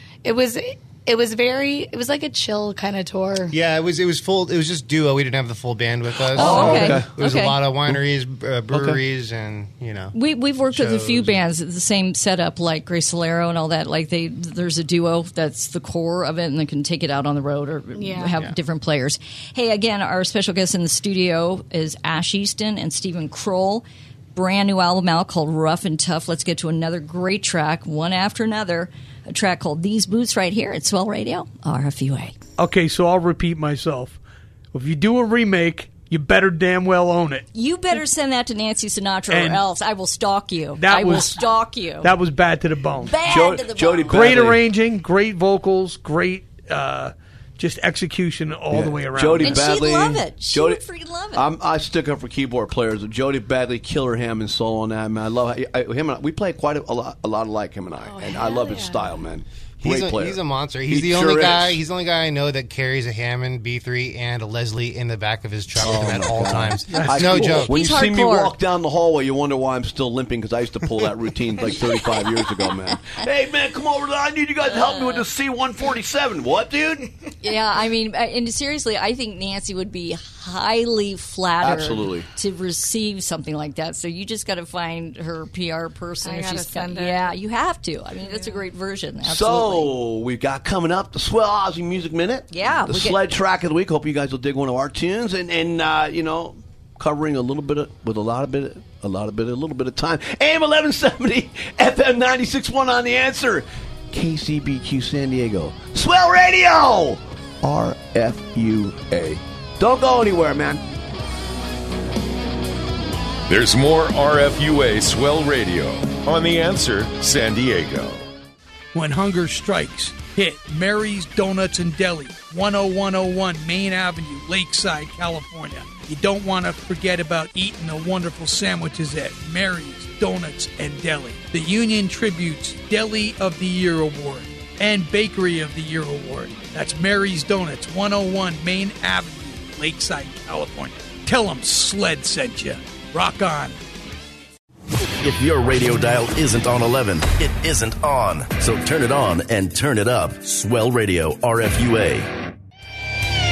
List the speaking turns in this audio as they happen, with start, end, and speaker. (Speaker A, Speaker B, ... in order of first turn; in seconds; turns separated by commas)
Speaker A: 0.2-3.5, Speaker B: 3.5-11.4, Speaker C: 6.3-7.1, Speaker D: 6.3-7.6, Speaker C: 8.7-9.0, Speaker D: 10.1-32.4, Speaker A: 17.9-18.4, Speaker E: 32.6-34.2, Speaker E: 34.7-37.5, Speaker D: 37.5-42.1, Speaker E: 39.3-39.6, Speaker E: 40.8-41.4, Speaker E: 42.0-43.2, Speaker D: 43.0-44.3, Speaker C: 43.2-44.6, Speaker E: 44.1-49.6, Speaker C: 48.7-50.8, Speaker D: 49.4-51.5, Speaker C: 51.3-61.8, Speaker A: 58.0-59.2, Speaker B: 59.8-67.7, Speaker C: 65.8-77.1, Speaker D: 67.6-68.5, Speaker D: 74.7-75.2, Speaker D: 77.4-89.9, Speaker C: 81.6-82.3, Speaker A: 86.2-87.3, Speaker A: 88.2-88.6, Speaker C: 89.2-110.8, Speaker D: 92.5-93.2, Speaker F: 113.5-118.2, Speaker E: 118.9-143.8, Speaker G: 145.2-152.3